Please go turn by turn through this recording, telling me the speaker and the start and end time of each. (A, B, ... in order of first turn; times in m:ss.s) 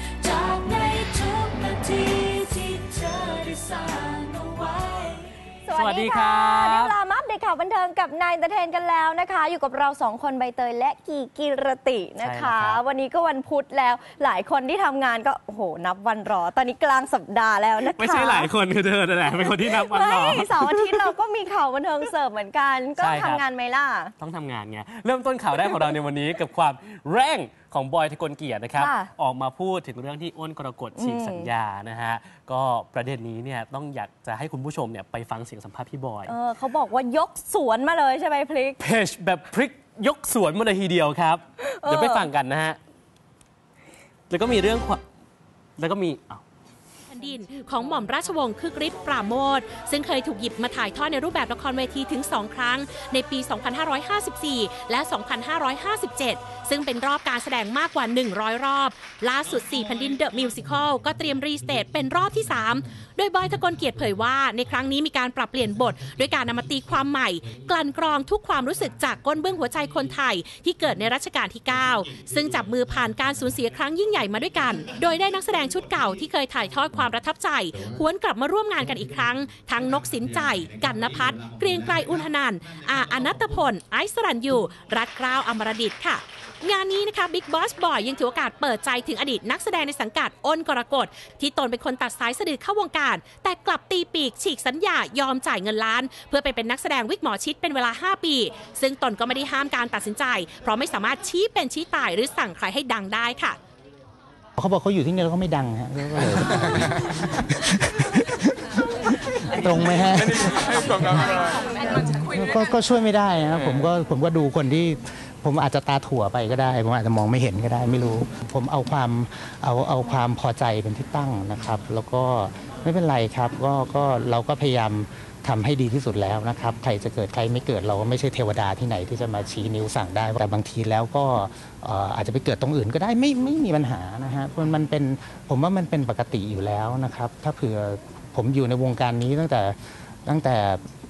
0:00.2-0:05.1 A
0:05.6-0:18.5 B
0:05.7-0:07.0 C
0:12.2-0:12.8 C
0:17.8-0:21.1 C
0:19.4-0:24.1 B
0:23.0-0:23.5 C
0:24.2-0:36.4 C
0:28.8-0:29.1 B
0:31.0-0:31.5 B
0:36.3-0:38.8 B
0:38.8-0:42.8 C
0:41.6-0:42.3 B
0:44.3-0:45.0 C
0:45.8-0:46.4 C
0:47.1-1:43.6 D
1:44.6-2:20.8 E